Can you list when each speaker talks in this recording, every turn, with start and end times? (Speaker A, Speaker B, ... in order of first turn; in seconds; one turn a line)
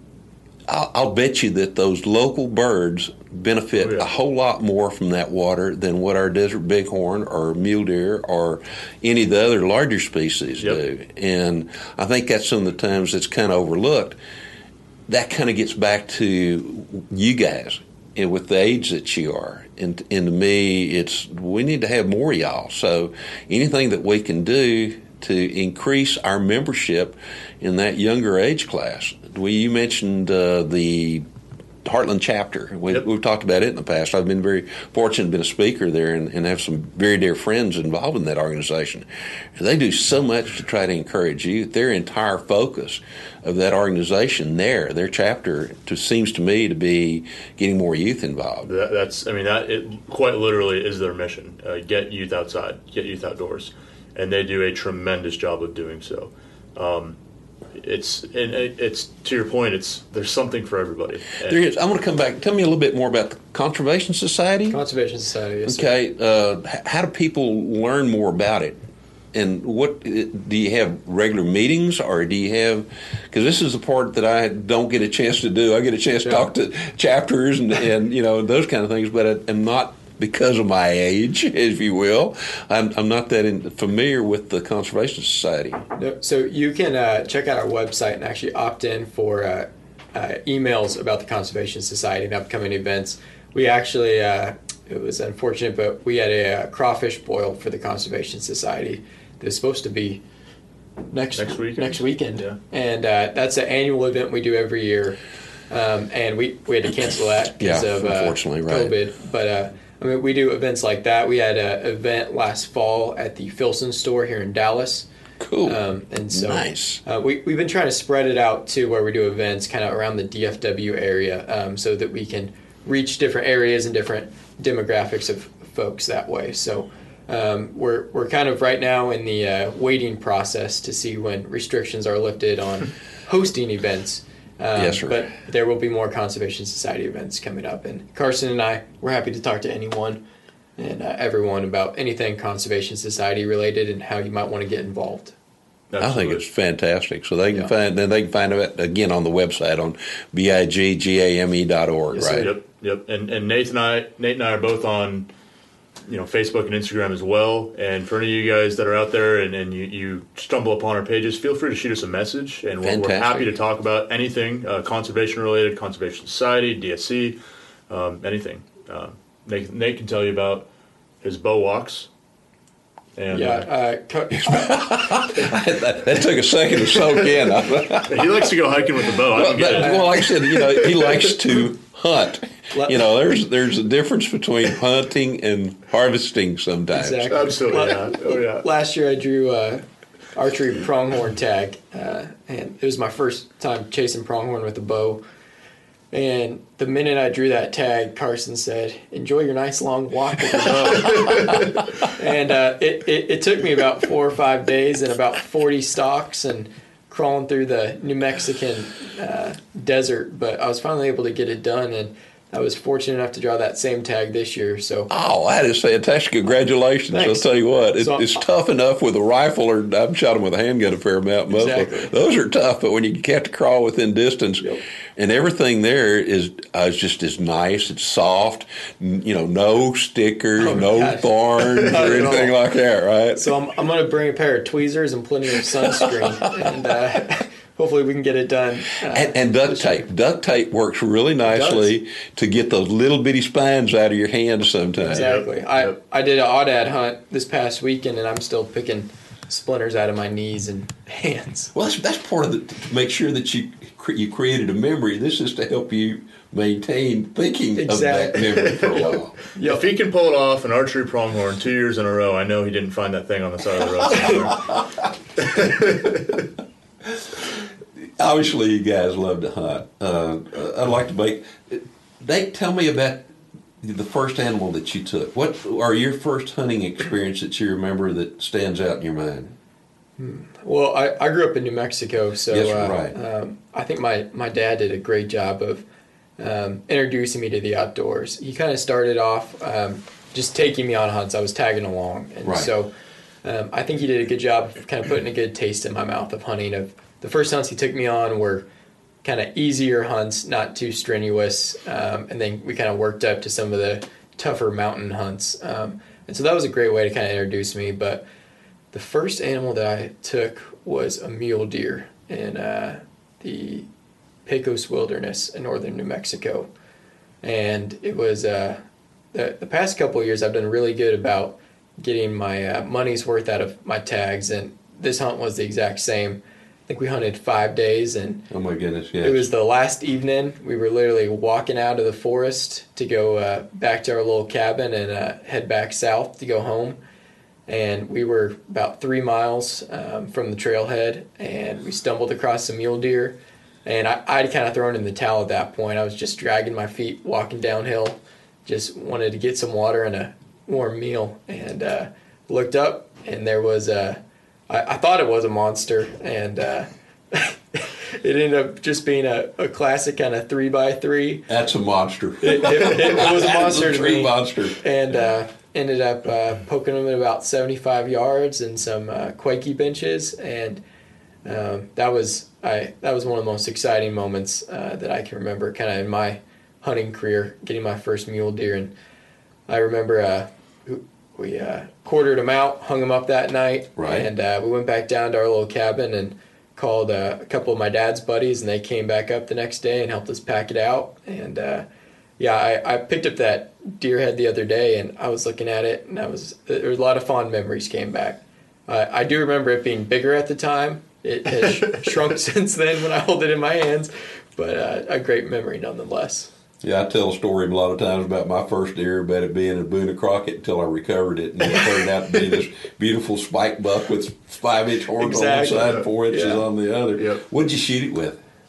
Speaker A: 0.7-14.2
Speaker B: 3.8-4.1
Speaker A: 15.1-31.2
Speaker A: 31.8-48.7
Speaker B: 48.6-57.2
Speaker B: 57.7-61.6
Speaker A: 61.4-64.8
Speaker C: 64.7-65.9
Speaker A: 65.7-68.8
Speaker A: 69.3-85.8
Speaker C: 85.9-100.2
Speaker C: 101.1-105.2
Speaker B: 101.3-102.6
Speaker C: 105.7-115.1
Speaker A: 107.6-108.9
Speaker A: 115.4-115.8
Speaker C: 115.6-140.2
Speaker A: 116.3-117.0
Speaker A: 134.8-135.3
Speaker C: 140.8-145.3
Speaker B: 145.9-146.4
Speaker A: 146.0-152.5
Speaker C: 152.1-152.5
Speaker B: 152.3-155.3
Speaker B: 156.1-167.4
Speaker A: 162.8-163.5
Speaker B: 167.9-170.7
Speaker B: 171.2-172.1
Speaker B: 173.2-173.7
Speaker C: 173.3-175.2
Speaker A: 174.4-178.5
Speaker B: 178.0-181.3
Speaker A: 179.0-187.5
Speaker C: 179.8-180.1
Speaker C: 182.7-183.0
Speaker C: 186.9-189.8
Speaker B: 187.3-188.6
Speaker C: 190.3-195.2
Speaker C: 196.1-215.1
Speaker A: 215.1-233.5
Speaker C: 217.1-218.4
Speaker C: 221.5-222.1
Speaker C: 230.6-232.5
Speaker C: 233.3-240.1
Speaker A: 239.1-245.3
Speaker C: 241.4-241.9
Speaker C: 245.1-251.7
Speaker B: 245.1-245.9
Speaker A: 251.7-259.3
Speaker C: 257.7-259.9
Speaker B: 259.6-264.7
Speaker A: 264.2-265.1
Speaker B: 265.4-266.1
Speaker A: 267.0-267.4
Speaker A: 268.2-273.3
Speaker A: 273.8-279.5
Speaker C: 280.2-285.8
Speaker A: 282.5-283.1
Speaker C: 286.4-292.9
Speaker A: 292.4-292.7
Speaker C: 293.4-298.6
Speaker C: 299.2-308.2
Speaker C: 308.9-313.9
Speaker C: 314.4-316.7
Speaker C: 317.4-318.8
Speaker C: 319.3-328.5
Speaker A: 328.5-329.5
Speaker C: 329.2-337.0
Speaker C: 337.7-361.5
Speaker A: 361.5-364.8
Speaker C: 362.4-370.8
Speaker C: 371.4-378.9
Speaker C: 379.7-391.8
Speaker A: 384.0-384.3
Speaker C: 392.4-406.5
Speaker A: 406.8-418.4
Speaker C: 411.7-412.0
Speaker C: 415.2-416.6